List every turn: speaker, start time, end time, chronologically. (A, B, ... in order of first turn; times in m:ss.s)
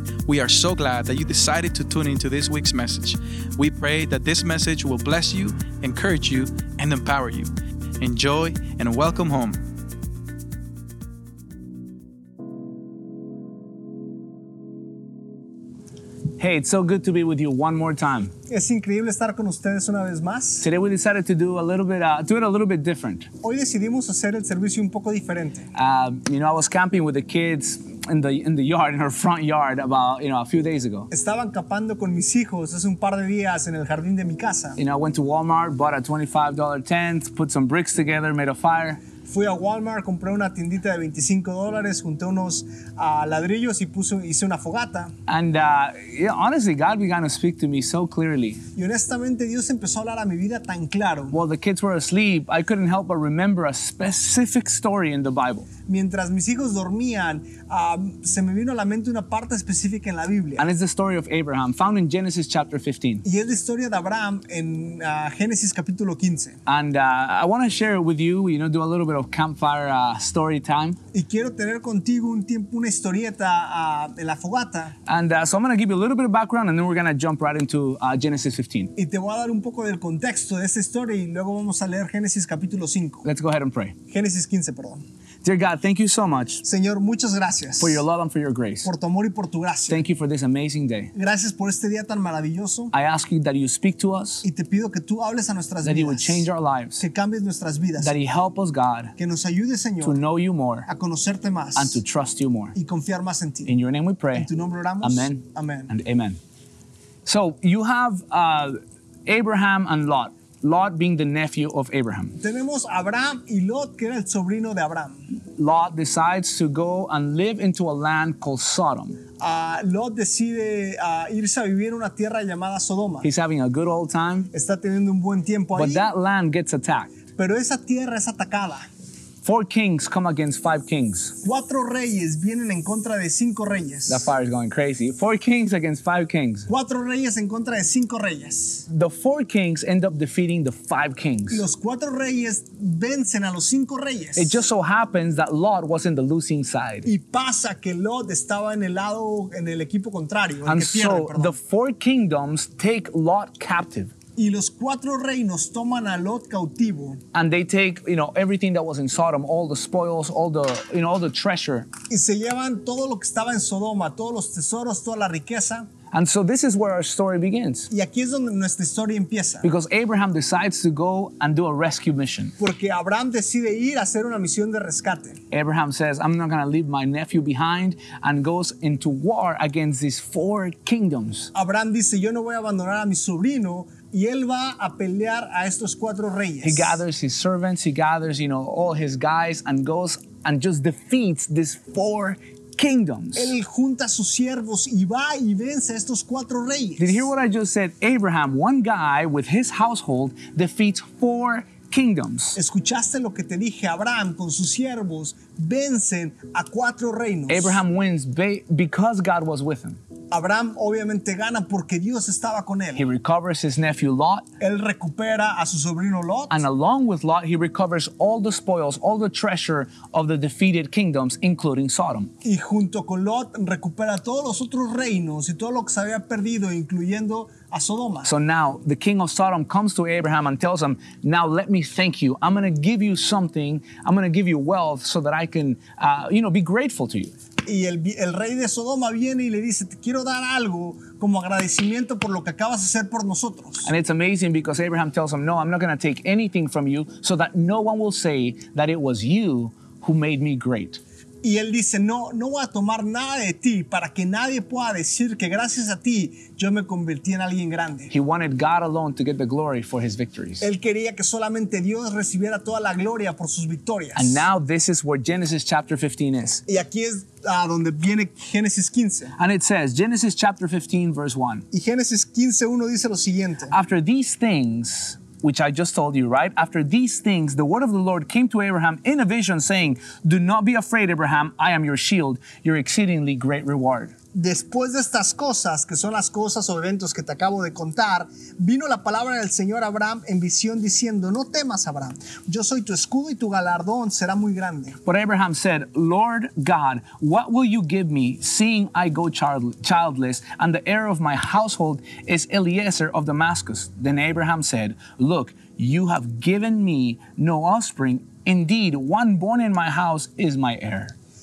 0:00.2-0:09.6 A
0:16.4-0:18.3 B
0:18.5-0:20.6 C
0:20.6-0:23.3 B
0:23.4-0:25.7 C
0:25.7-0:31.1 B
0:31.1-0:34.8 C
0:34.8-0:39.0 B
0:39.2-0:45.1 C
0:45.3-0:48.6 B
0:48.7-0:51.4 C
0:51.3-0:55.7 B
0:55.9-1:00.7 C
1:00.6-1:03.2 B
1:03.2-1:06.6 C
1:06.6-1:11.0 B
1:11.1-1:14.9 C
1:15.0-1:18.9 B
1:19.0-1:23.2 C
1:23.2-1:24.0 B
1:24.1-1:25.0 C
1:25.4-1:26.6 B
1:26.6-1:28.0 C
1:27.8-1:28.9 B
1:28.8-1:30.0 C
1:29.9-1:31.1 B
1:31.1-1:32.9 C
1:32.9-1:34.4 B
1:34.4-1:36.4 C
1:35.8-1:37.0 B
1:37.0-1:38.1 C
1:38.0-1:39.1 B
1:39.2-1:40.2 C
1:40.0-1:40.9 B
1:40.9-1:42.0 C
1:41.8-1:42.7 B
1:42.7-1:43.7 C
1:43.6-1:44.5 B
1:44.3-1:45.9 C
1:45.0-1:46.4 B
1:47.2-1:52.4 B
1:52.4-1:55.2 C
1:55.6-1:59.2 B
1:59.4-2:03.3 C
2:03.2-2:04.5 B
2:04.5-2:06.1 C
2:05.7-2:07.1 B
2:07.4-2:08.9 C
2:09.4-2:11.4 B
2:11.4-2:14.3 C
2:14.1-2:16.7 B
2:16.7-2:18.8 C
2:18.9-2:21.6 B
2:21.5-2:24.6 C
2:24.4-2:27.1 B
2:27.0-2:31.6 C
2:30.6-2:34.1 B
2:34.4-2:37.2 C
2:37.3-2:41.9 B
2:42.1-2:45.9 C
2:46.1-2:47.9 B
2:47.9-2:49.7 C
2:49.6-2:52.5 B
2:52.6-2:55.4 C
2:55.5-3:01.5 B
3:01.5-3:07.0 C
3:06.6-3:13.5 B
3:13.4-3:17.3 C
3:17.0-3:22.6 B
3:22.6-3:27.8 C
3:27.5-3:30.0 B
3:30.3-3:33.0 C
3:32.9-3:34.4 B
3:34.6-3:36.6 C
3:36.5-3:42.3 B
3:42.4-3:48.3 C
3:48.2-3:57.3 B
3:57.6-4:03.9 C
4:03.8-4:11.0 B
4:11.4-4:18.1 C
4:18.1-4:20.7 B
4:20.6-4:24.4 C
4:24.2-4:26.6 B
4:26.7-4:29.3 C
4:29.4-4:31.6 B
4:31.7-4:33.7 C
4:33.7-4:44.1 B
4:44.3-4:55.0 C
4:55.0-5:11.1 B